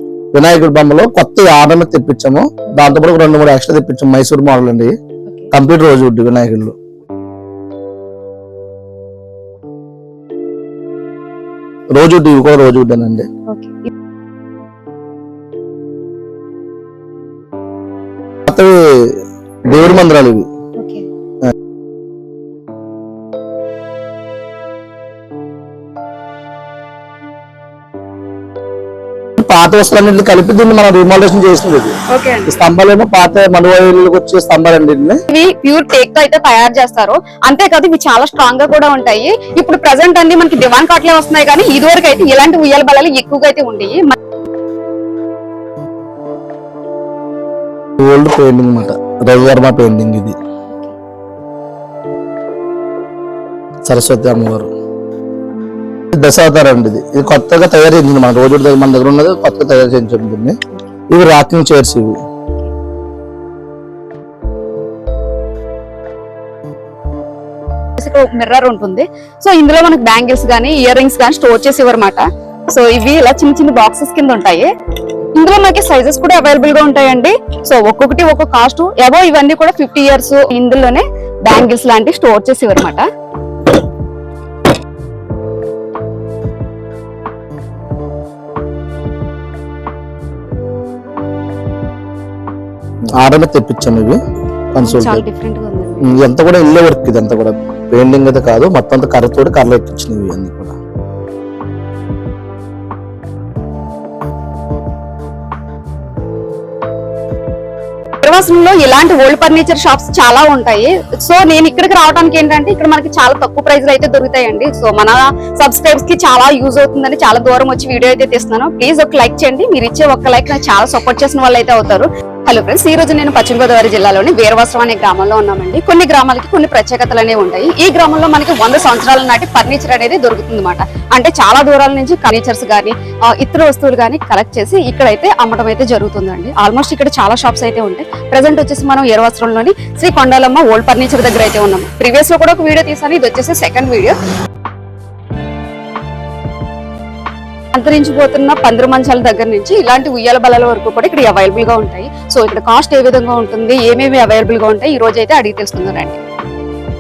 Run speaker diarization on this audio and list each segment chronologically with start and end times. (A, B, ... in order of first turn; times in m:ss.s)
0:00.3-0:05.0 A
0:05.5-0:06.8 A
0:11.9-0:13.3 A
0:13.5-0:13.9 B
0:18.5-0:20.5 A
0:20.8-0:21.1 B
0:29.4-0:32.0 A
0:32.1-0:32.5 B
0:32.5-0:35.2 A
0:35.3-0:44.2 B
0:48.0-0:50.4 A
0:53.9-0:54.7 A
0:56.1-1:00.6 A
1:01.1-1:02.2 A
1:08.0-1:14.7 B
1:15.4-1:23.1 B
1:33.2-1:34.2 A
1:34.8-1:35.2 A
1:34.8-1:36.3 B
1:36.0-1:40.8 A
1:48.2-2:24.2 B
2:27.8-2:36.2 B